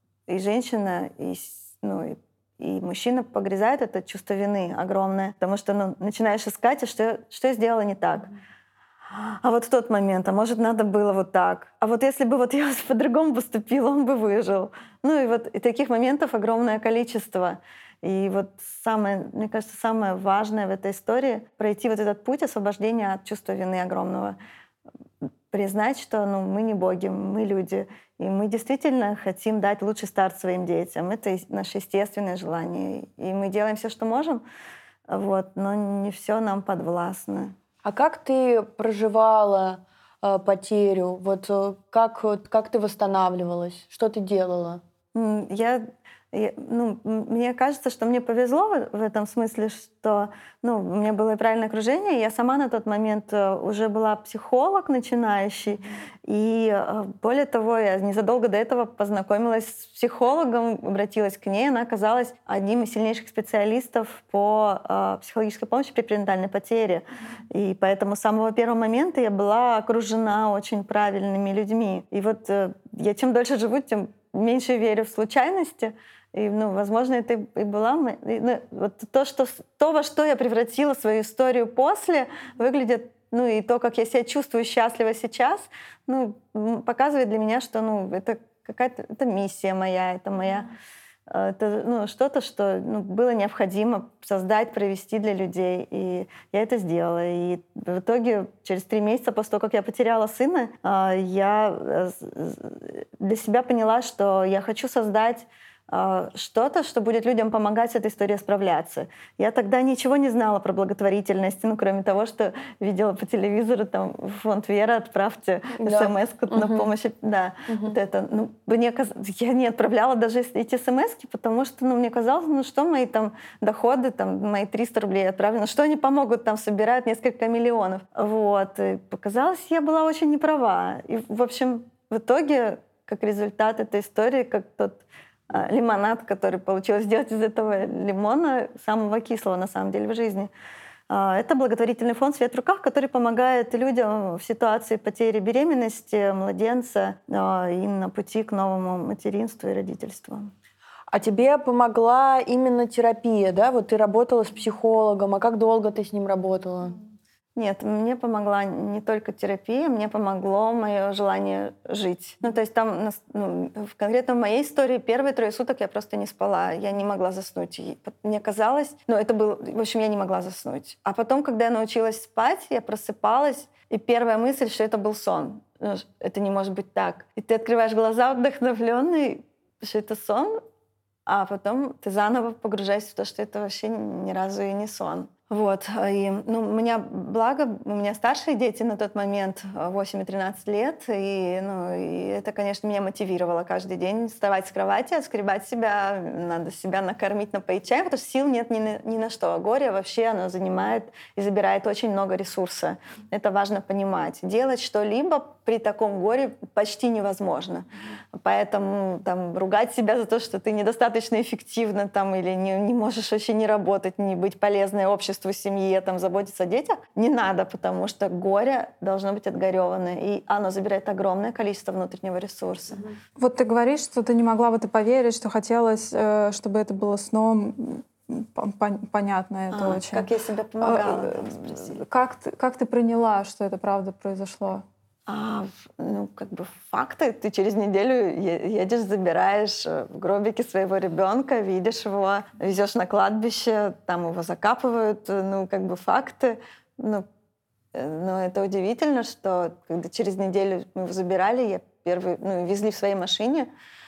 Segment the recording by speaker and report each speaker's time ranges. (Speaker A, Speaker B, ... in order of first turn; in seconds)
Speaker A: 0.3-8.3, 9.1-24.4, 25.5-34.4, 35.1-37.5, 45.1-90.7, 91.3-140.5, 141.1-150.5, 157.6-180.6, 181.2-223.0, 229.7-232.0, 235.3-247.2, 247.9-253.7
Speaker B: 37.8-44.8, 115.8-116.9, 117.7-118.0, 151.1-156.9
Speaker C: 223.4-230.2, 230.8-234.8